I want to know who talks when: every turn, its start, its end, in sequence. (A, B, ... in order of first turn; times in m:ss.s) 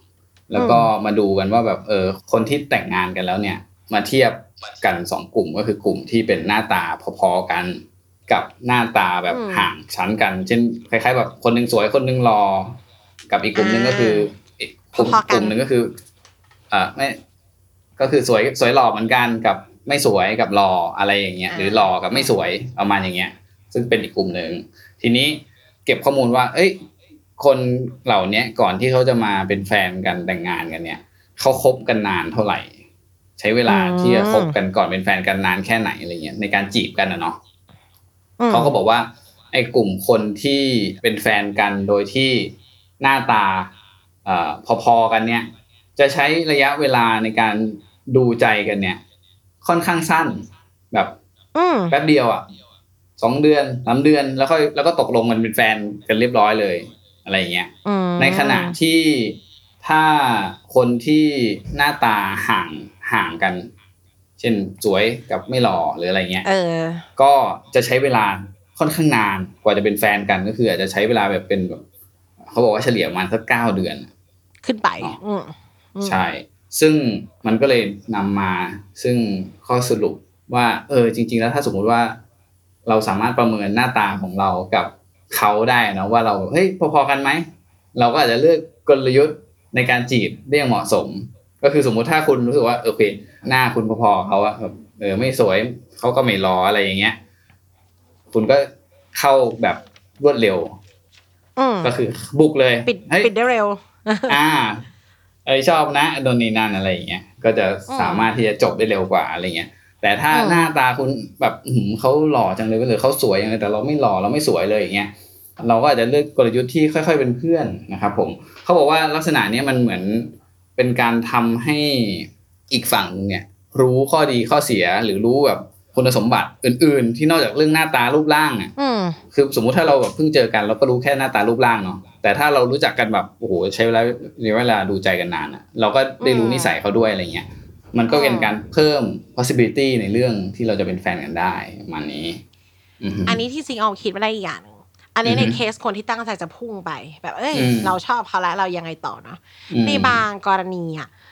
0:00.5-0:16.0 A
0:00.6-0:00.9 B
0:09.3-0:09.7 B
0:13.6-0:14.3 B
0:14.9-0:15.6 B
0:16.7-0:17.2 A
0:18.0-0:26.8 A
0:21.5-0:22.3 B
0:27.4-0:32.7 A
0:33.4-0:37.4 A
0:33.7-0:34.6 B
0:38.4-0:38.8 B
0:38.5-0:43.7 A
0:44.2-0:49.0 A
0:49.6-0:51.2 A
0:51.6-0:51.9 B
0:51.9-0:52.5 A
0:53.2-1:03.7 A
0:57.8-0:58.8 B
1:04.4-1:06.5 A
1:06.4-1:07.1 B
1:07.2-1:11.8 A
1:12.4-1:14.1 A
1:14.6-1:16.2 B
1:16.0-1:22.2 A
1:22.9-1:37.2 A
1:38.3-1:40.8 A
1:41.6-1:41.9 B
1:41.8-1:43.3 A
1:42.8-1:44.4 B
1:44.3-1:44.8 A
1:45.4-2:08.7 A
1:47.9-1:48.3 B
1:50.3-1:50.7 B
2:08.8-2:09.2 B
2:09.3-2:22.4 A
2:16.2-2:16.7 B
2:18.1-2:18.5 B
2:23.0-2:23.4 A
2:23.3-2:31.1 B
2:25.2-2:25.6 A
2:27.5-2:27.9 A
2:29.7-2:30.2 A